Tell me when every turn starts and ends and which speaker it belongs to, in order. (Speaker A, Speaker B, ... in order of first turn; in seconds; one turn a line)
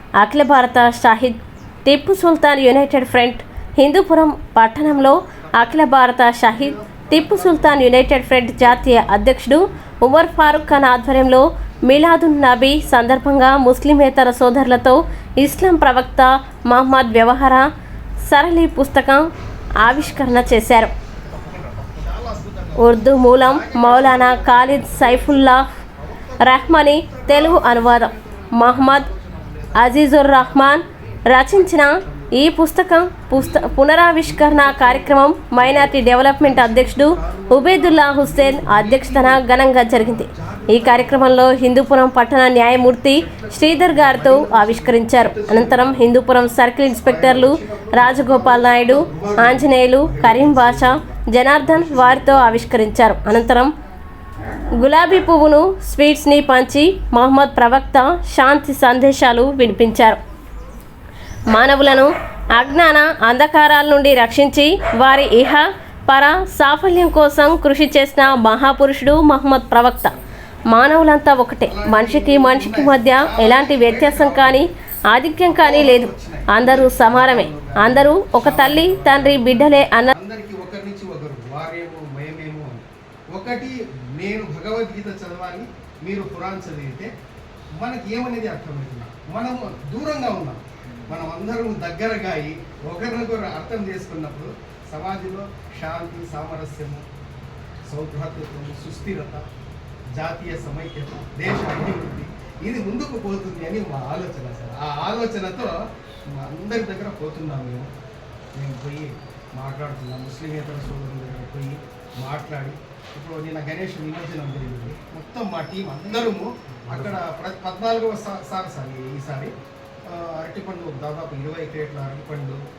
Speaker A: 0.2-17.7
Speaker B: 4.8-5.9
Speaker B: 6.5-11.1
Speaker B: 11.9-13.1
Speaker B: 15.4-15.7
Speaker A: 18.2-20.9
Speaker B: 19.8-20.7
Speaker B: 21.2-32.5
Speaker A: 22.8-25.6
Speaker A: 26.4-29.1
Speaker A: 29.8-53.7
Speaker B: 33.3-41.7
Speaker B: 43.1-46.1
Speaker B: 46.9-53.4
Speaker A: 54.8-60.2
Speaker A: 61.5-70.2
Speaker A: 70.7-80.1
Speaker B: 71.6-74.7
Speaker B: 75.4-87.1
Speaker B: 87.8-97.0
Speaker B: 97.9-99.4
Speaker B: 100.2-105.8
Speaker B: 106.3-107.9
Speaker B: 108.6-119.5
Speaker B: 120.1-122.6